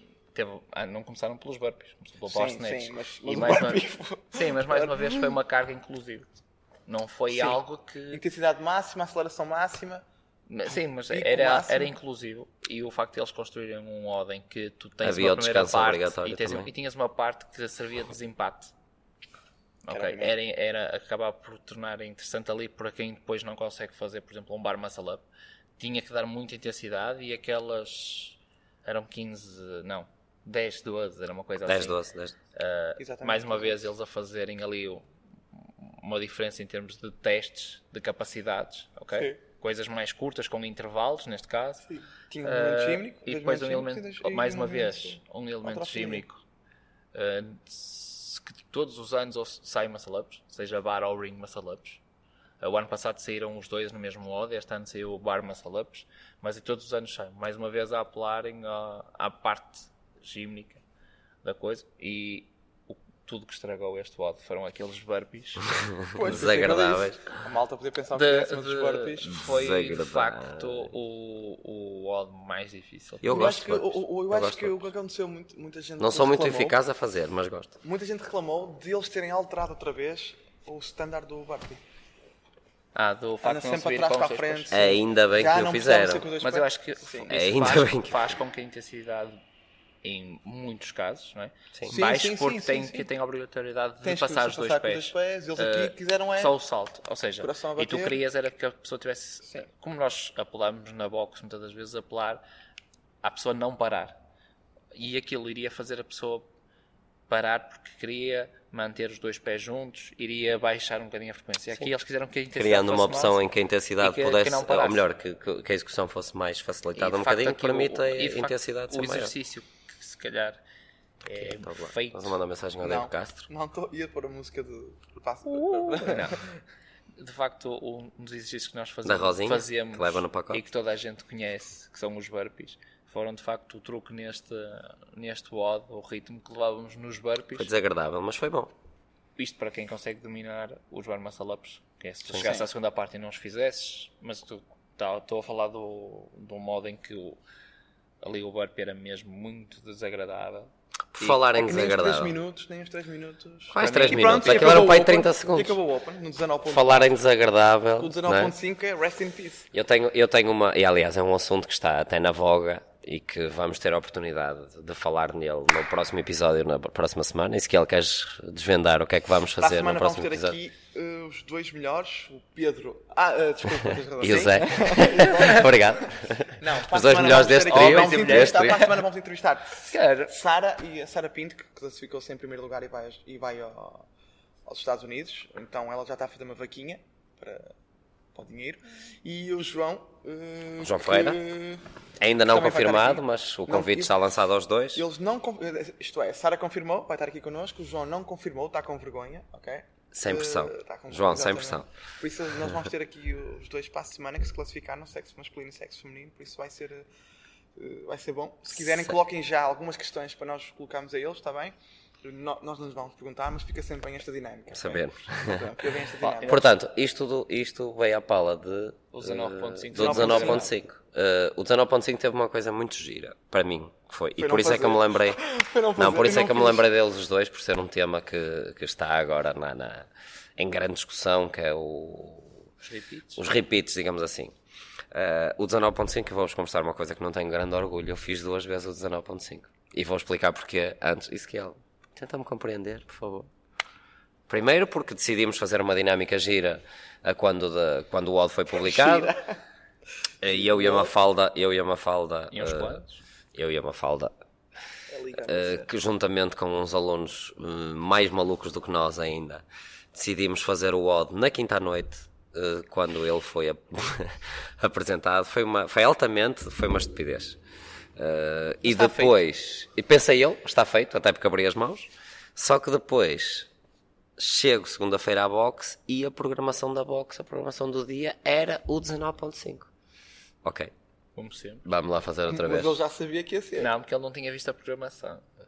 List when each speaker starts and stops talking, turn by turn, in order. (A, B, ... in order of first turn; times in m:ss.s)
0:00.3-0:06.3 A
0:02.2-0:05.4 B
0:06.9-0:08.2 A
0:07.3-0:07.6 B
0:08.1-0:10.0 B
0:10.5-0:18.7 A
0:11.1-0:11.9 B
0:15.0-0:16.7 C
0:19.8-0:25.2 A
0:19.9-0:20.3 B
0:25.8-0:32.0 A
0:31.6-0:32.4 C
0:32.5-0:41.9 A
0:33.0-0:33.9 B
0:39.1-0:39.4 B
0:41.9-0:46.2 B
0:42.4-0:46.4 A
0:47.1-0:52.0 A
0:52.6-1:00.8 A
1:01.4-1:05.7 A
1:06.0-1:07.4 C
1:06.1-1:09.4 B
1:08.1-1:13.5 A
1:09.3-1:10.9 C
1:13.2-1:14.8 C
1:13.2-1:16.8 B
1:16.0-1:17.7 C
1:17.8-1:21.8 B
1:22.9-1:24.8 A
1:23.4-1:27.3 B
1:24.7-1:26.3 C
1:26.4-1:29.4 A
1:27.3-1:28.3 C
1:30.0-1:42.4 A
1:31.9-1:33.1 B
1:34.0-1:36.6 B
1:37.4-1:38.2 B
1:43.2-1:44.2 A
1:44.9-1:46.5 A
1:47.3-1:53.4 A
1:52.5-1:59.3 C
1:54.0-1:55.0 A
1:57.0-2:00.6 A
2:01.2-2:02.4 A
2:01.4-2:03.5 C
2:02.8-2:06.4 B
2:05.9-2:06.4 A
2:07.2-2:17.7 A
2:09.0-2:10.6 C
2:17.6-2:18.7 C
2:19.4-2:27.4 A
2:28.2-2:30.7 A
2:31.1-2:32.4 C
2:31.3-2:37.1 B
2:33.7-2:35.8 C
2:33.8-2:34.8 A
2:36.6-2:38.5 C
2:38.0-2:39.7 B
2:39.7-2:50.6 C
2:49.6-2:56.1 B
2:54.2-2:58.9 C
2:56.6-3:04.0 B
2:57.7-2:58.9 A
2:59.8-3:00.3 A
3:04.6-3:07.7 B
3:08.3-3:11.8 B
3:10.8-3:11.4 C
3:12.2-3:15.0 C
3:12.4-3:14.2 B
3:14.9-3:27.0 B
3:20.1-3:21.9 C
3:27.8-3:36.7 B
3:34.7-3:35.8 C
3:36.2-3:36.5 A
3:36.4-3:45.4 C
3:39.1-3:40.7 A
3:40.0-3:40.7 B
3:44.4-3:46.9 B
3:46.0-3:52.6 C
3:52.8-3:53.4 A
3:53.3-3:54.5 C
3:55.1-4:03.5 C
4:04.5-4:09.3 C
4:08.8-4:09.5 B
4:10.4-4:13.0 C
4:10.4-4:11.1 B
4:12.5-4:13.2 A
4:13.5-4:14.3 C
4:15.1-4:15.9 B
4:15.4-4:27.6 C
4:28.2-4:33.7 C
4:28.8-4:29.3 A
4:34.4-4:39.9 C
4:40.6-4:40.9 C
4:41.4-4:41.8 A
4:41.8-4:43.0 C
4:42.5-4:43.9 B
4:43.8-4:45.4 A